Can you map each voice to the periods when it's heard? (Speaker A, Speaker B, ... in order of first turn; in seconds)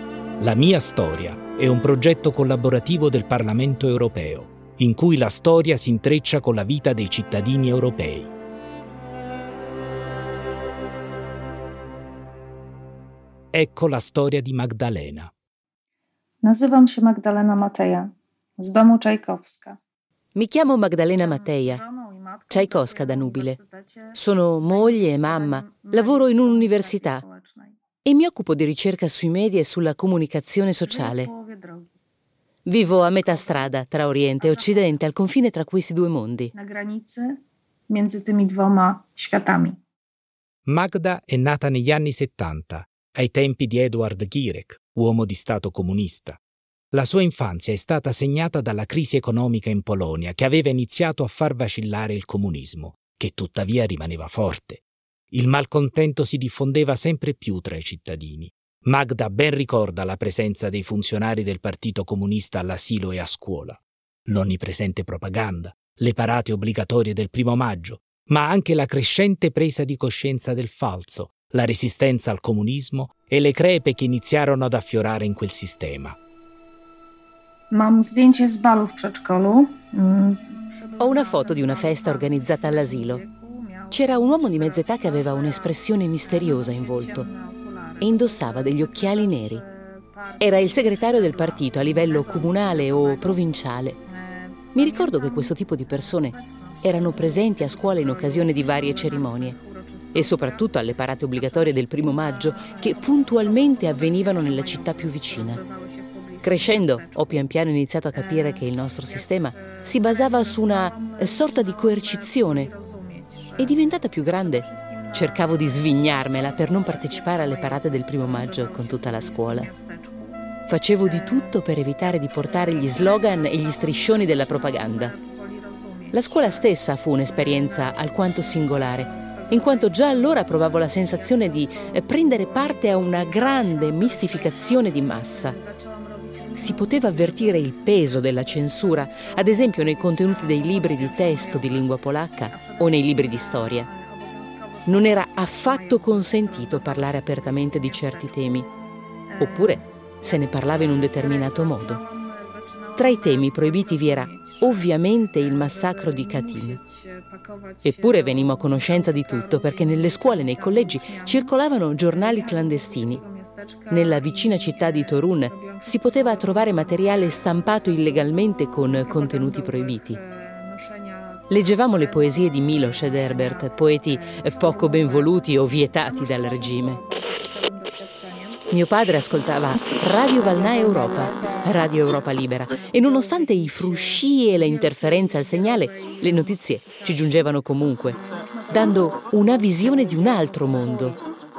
Speaker A: 0.4-8.3, 13.5-15.3, 40.7-46.4, 46.9-76.2
Speaker B: 16.4-19.8, 21.0-27.8, 30.8-32.0, 32.8-33.8, 34.4-35.0, 36.5-39.8, 77.7-93.5, 94.1-107.5, 108.1-120.5, 121.0-121.6, 122.4-141.9, 142.5-148.7, 149.3-191.2
Speaker C: 20.4-21.8, 22.5-23.6, 24.1-27.2, 28.1-31.3, 32.7-36.5, 81.0-83.2, 83.9-87.3, 88.0-89.6, 90.4-94.0, 94.8-99.6, 100.1-105.6, 106.4-112.7, 113.6-119.7, 120.7-125.1, 126.1-135.6, 136.6-143.9, 144.9-148.7, 149.4-152.0, 153.0-156.8, 157.8-163.2, 163.9-170.2, 171.5-177.0, 178.7-188.2, 188.7-191.2